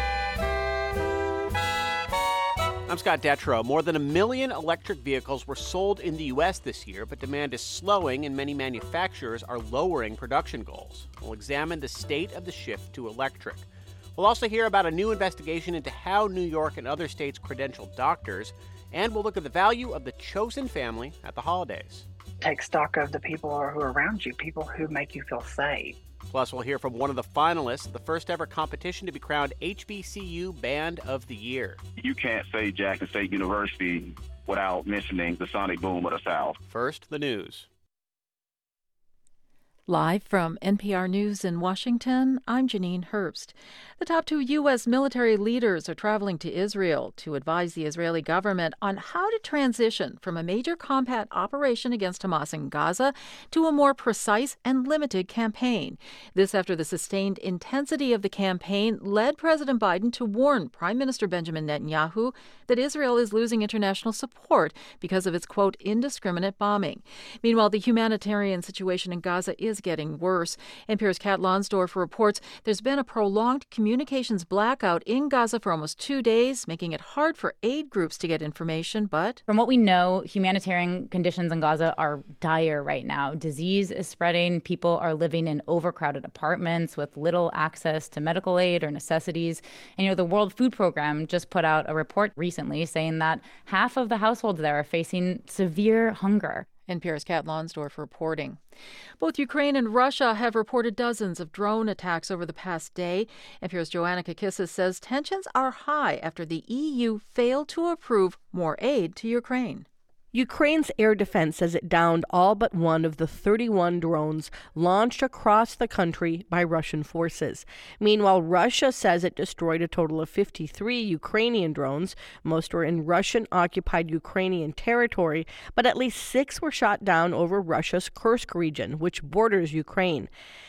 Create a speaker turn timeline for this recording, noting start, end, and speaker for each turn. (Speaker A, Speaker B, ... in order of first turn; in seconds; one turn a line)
Speaker A: 2.9-22.1
Speaker B: 22.4-26.0
Speaker A: 26.3-31.8
Speaker C: 32.0-36.6
Speaker A: 36.7-37.7
Speaker D: 39.9-79.4
Speaker E: 79.5-96.7
Speaker D: 96.9-98.6
Speaker D: 99.2-109.9
Speaker F: 110.3-130.3